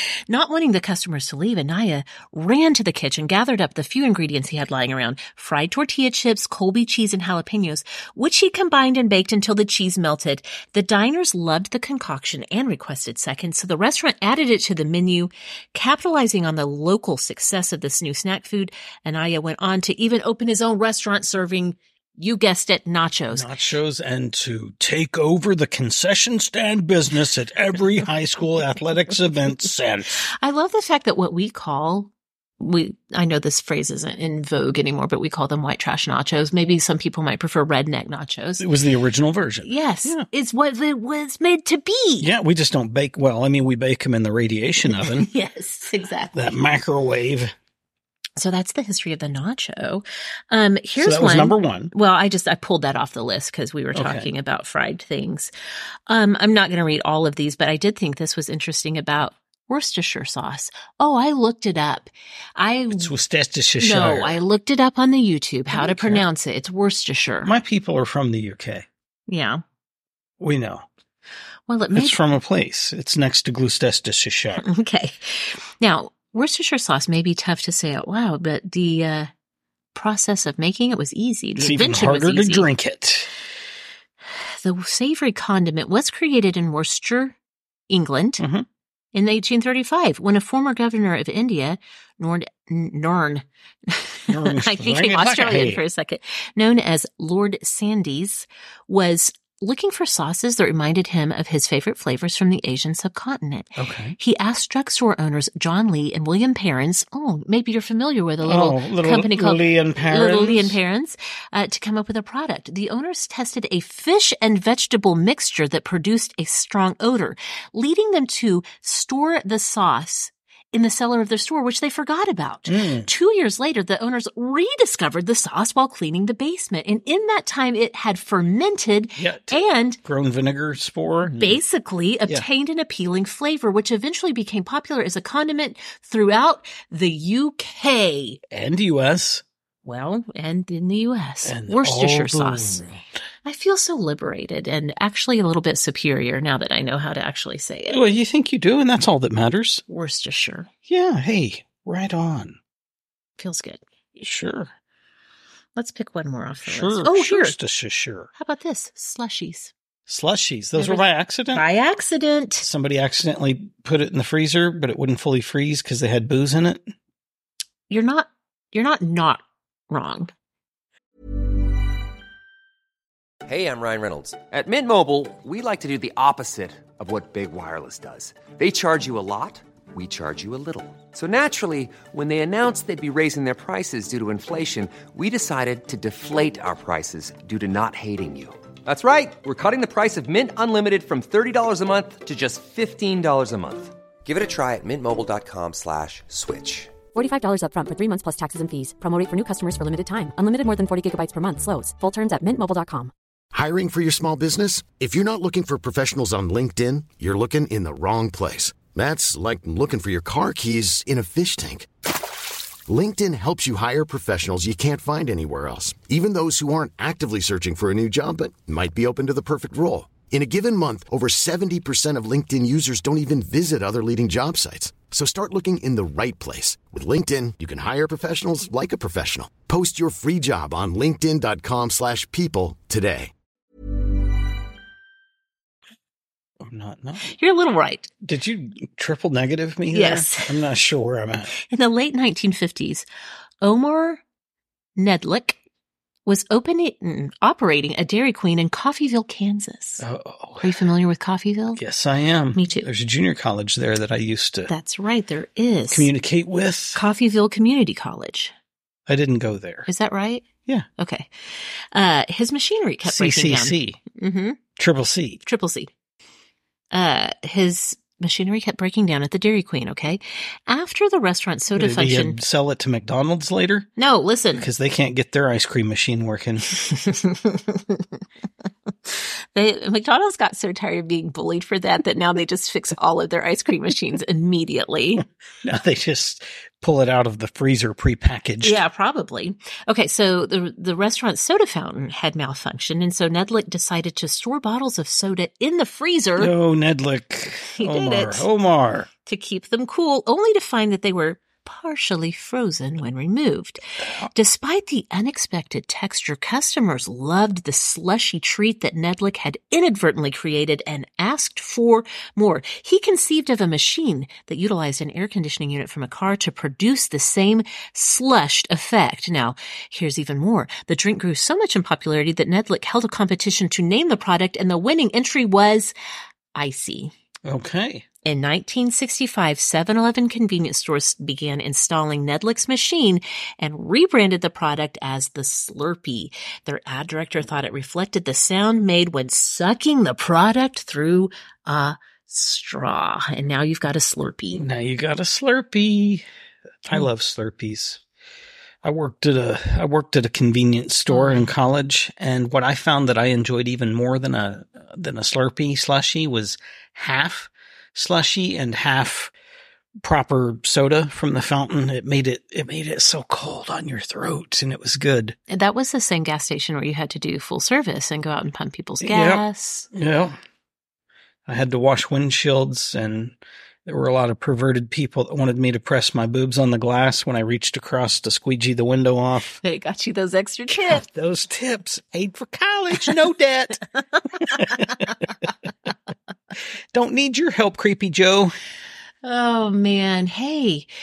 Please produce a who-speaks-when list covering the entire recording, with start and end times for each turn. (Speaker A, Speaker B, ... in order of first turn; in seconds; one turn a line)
Speaker A: 0.3-23.5
Speaker B: 23.3-30.2
Speaker A: 30.2-38.6
Speaker B: 38.6-40.3
Speaker A: 39.6-42.3
Speaker B: 42.2-45.3
Speaker A: 44.9-46.6
Speaker B: 46.3-47.5
Speaker A: 48.4-55.5
Speaker B: 51.0-51.9
Speaker B: 53.9-54.3
Speaker A: 56.1-63.1
Speaker B: 62.9-64.4
Speaker A: 63.8-67.5
Speaker B: 65.7-66.2
Speaker B: 67.4-68.8
Speaker A: 69.3-69.6
Speaker B: 70.4-70.8
Speaker A: 71.7-72.2
Speaker B: 71.9-74.7
Speaker A: 74.6-79.3
Speaker A: 79.9-82.7
Speaker B: 81.6-83.3
Speaker A: 84.4-87.3
Speaker A: 87.9-88.4
Speaker B: 88.4-88.7
Speaker A: 89.1-130.0
Speaker B: 94.3-95.8
Speaker B: 103.8-104.2
Speaker B: 108.4-110.8
Speaker B: 122.7-123.1
Speaker B: 129.2-131.6
Speaker A: 131.2-138.4
Speaker B: 138.5-139.4
Speaker A: 139.8-142.9
Speaker B: 141.4-143.0
Speaker A: 143.4-148.0
Speaker B: 147.9-149.8
Speaker A: 149.9-150.7
Speaker B: 150.9-152.6
Speaker A: 153.4-153.8
Speaker B: 154.2-154.7
Speaker A: 155.8-157.6
Speaker B: 156.6-158.3
Speaker A: 158.4-159.7
Speaker B: 160.1-161.6
Speaker A: 160.8-162.7
Speaker B: 162.6-166.9
Speaker A: 167.9-170.3
Speaker C: 173.4-197.0
Speaker D: 197.1-203.1
Speaker E: 203.5-211.9
Speaker E: 212.9-233.3
Speaker B: 236.6-237.3
Speaker A: 237.2-238.1
Speaker B: 238.2-241.5
Speaker A: 239.9-240.6
Speaker A: 241.6-243.0
Speaker A: 243.6-244.2
Speaker A: 244.9-245.6
Speaker A: 246.2-250.0
Speaker B: 250.0-250.8
Speaker A: 250.6-251.8
Speaker B: 251.8-254.7
Speaker A: 252.5-252.9
Speaker A: 254.7-256.1
Speaker B: 255.9-257.0
Speaker A: 256.9-258.5
Speaker B: 259.1-259.9
Speaker A: 259.9-260.4
Speaker A: 261.0-264.6
Speaker B: 263.0-264.0
Speaker B: 264.8-265.4
Speaker A: 265.4-265.9
Speaker A: 266.9-272.4
Speaker B: 271.7-273.9
Speaker A: 274.0-274.7
Speaker B: 274.5-276.7
Speaker A: 276.8-278.2
Speaker A: 279.5-285.2
Speaker B: 285.6-288.8
Speaker A: 288.6-296.5
Speaker B: 296.4-299.1
Speaker A: 297.8-298.4
Speaker A: 299.2-303.8
Speaker B: 304.0-304.3
Speaker A: 304.3-325.9
Speaker A: 326.5-327.1
Speaker B: 327.4-328.1
Speaker A: 328.2-344.6
Speaker B: 344.5-346.2
Speaker B: 346.9-348.0
Speaker B: 348.8-359.3
Speaker A: 351.1-351.5
Speaker B: 360.0-365.4
Speaker A: 365.5-369.9
Speaker B: 369.0-370.4
Speaker B: 371.5-379.6
Speaker A: 379.6-381.0
Speaker B: 380.7-383.8
Speaker A: 384.1-385.1
Speaker B: 384.4-385.1
Speaker B: 386.9-388.5
Speaker A: 389.2-390.9